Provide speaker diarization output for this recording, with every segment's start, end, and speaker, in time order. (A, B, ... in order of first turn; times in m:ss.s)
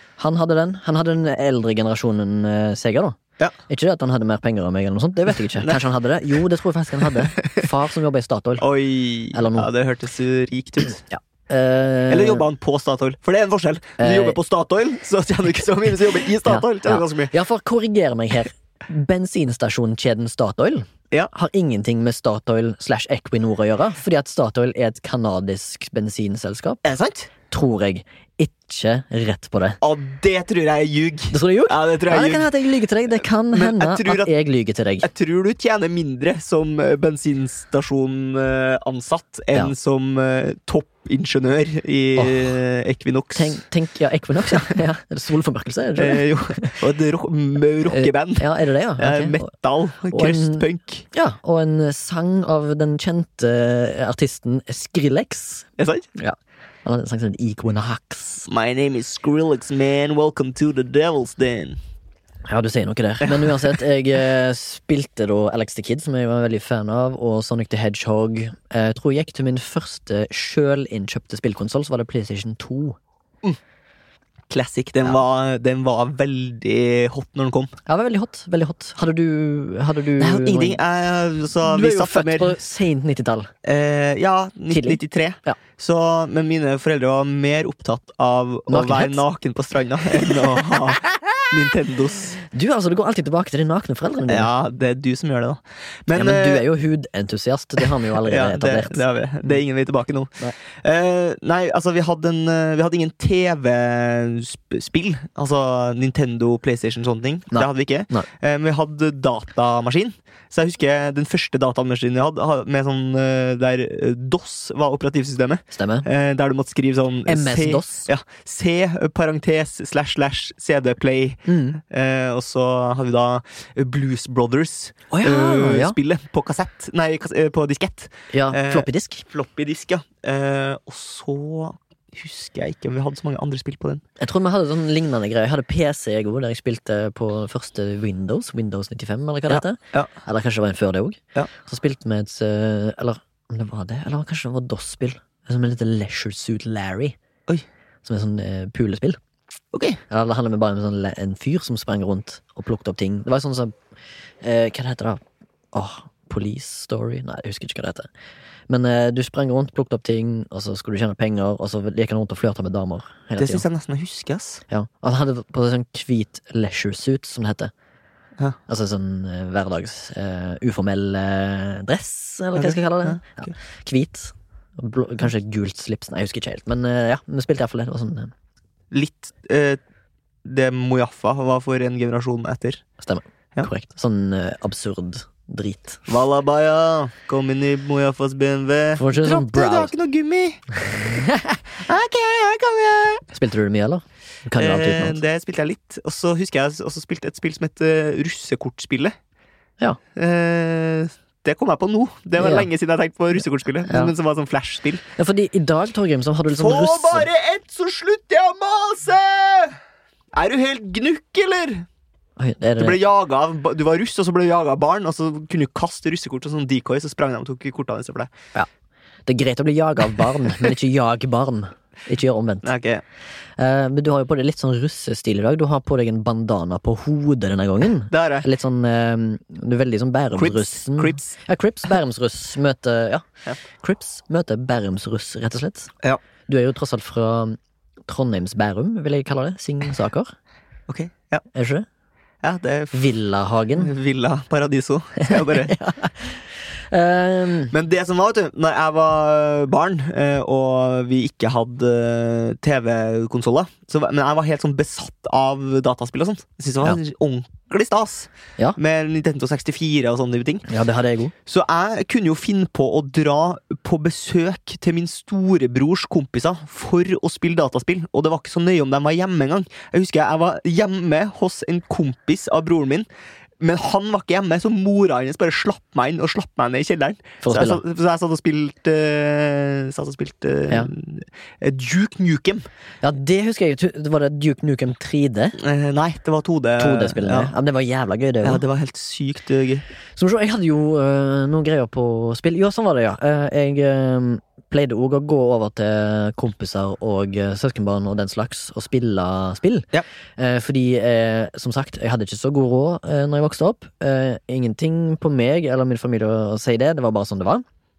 0:00.2-0:08.6 A
0:08.6-0:11.0 B
0:09.3-0:09.7 A
0:11.1-0:12.4 A
0:12.1-0:17.3 B
0:14.0-0:14.4 A
0:16.5-0:26.8 A
0:26.8-0:27.3 B
0:27.5-0:29.8 A
0:29.8-0:32.5 B
0:31.3-0:35.1 A
0:33.5-0:34.3 B
0:35.0-0:43.6 B
0:42.2-0:42.5 A
0:43.3-0:46.8 A
0:46.0-0:51.0 B
0:47.9-0:49.4 A
0:50.1-0:58.5 A
0:55.8-0:56.1 B
0:58.5-1:01.8 B
1:02.5-1:13.0 A
1:03.2-1:03.6 B
1:14.5-1:17.7 B
1:17.8-1:20.8 A
1:20.2-1:22.6 B
1:21.6-1:23.5 A
1:23.6-1:32.4 B
1:24.7-1:25.6 A
1:28.7-1:29.2 A
1:32.5-1:34.5 A
1:34.3-1:36.6 B
1:36.1-1:39.0 A
1:38.2-2:14.0 B
1:47.5-1:48.3 A
1:55.7-1:56.1 A
1:57.3-1:58.1 A
2:01.4-2:01.8 A
2:05.1-2:06.0 A
2:08.3-2:09.2 A
2:14.2-2:27.2 A
2:19.5-2:20.1 B
2:28.0-2:29.2 A
2:29.7-2:30.0 B
2:30.1-2:33.7 A
2:34.4-2:35.2 A
2:35.7-2:38.1 A
2:38.7-2:43.6 A
2:43.4-2:44.6 B
2:44.7-2:47.7 A
2:48.7-2:58.3 A
2:52.6-2:53.3 B
2:58.9-2:59.8 B
3:00.4-3:02.8 B
3:03.0-3:06.0 A
3:06.1-3:11.2 B
3:09.0-3:09.9 A
3:10.9-3:11.6 A
3:11.8-3:13.2 B
3:13.3-3:15.2 A
3:14.6-3:19.1 B
3:20.2-3:25.0 B
3:22.4-3:22.7 A
3:23.9-3:24.1 A
3:25.2-3:27.3 A
3:26.6-3:29.8 B
3:30.3-3:31.8 B
3:32.4-3:33.0 A
3:32.8-3:38.3 B
3:39.2-3:42.7 A
3:42.6-3:43.0 B
3:43.6-3:53.2 A
3:48.1-3:48.5 B
3:50.4-3:51.3 B
3:53.8-3:55.9 A
3:56.5-4:00.3 A
4:00.9-4:01.4 B
4:01.5-4:01.8 A
4:02.4-4:03.0 B
4:02.9-4:03.9 A
4:03.8-4:05.7 B
4:05.2-4:07.7 A
4:07.7-4:20.7 B
4:20.7-4:21.3 A
4:21.4-4:33.1 B
4:33.6-4:42.6 B
4:37.4-4:37.8 A
4:43.0-4:45.6 A
4:45.6-4:47.5 B
4:46.8-4:48.6 A
4:48.4-4:49.8 B
4:50.2-5:07.6 A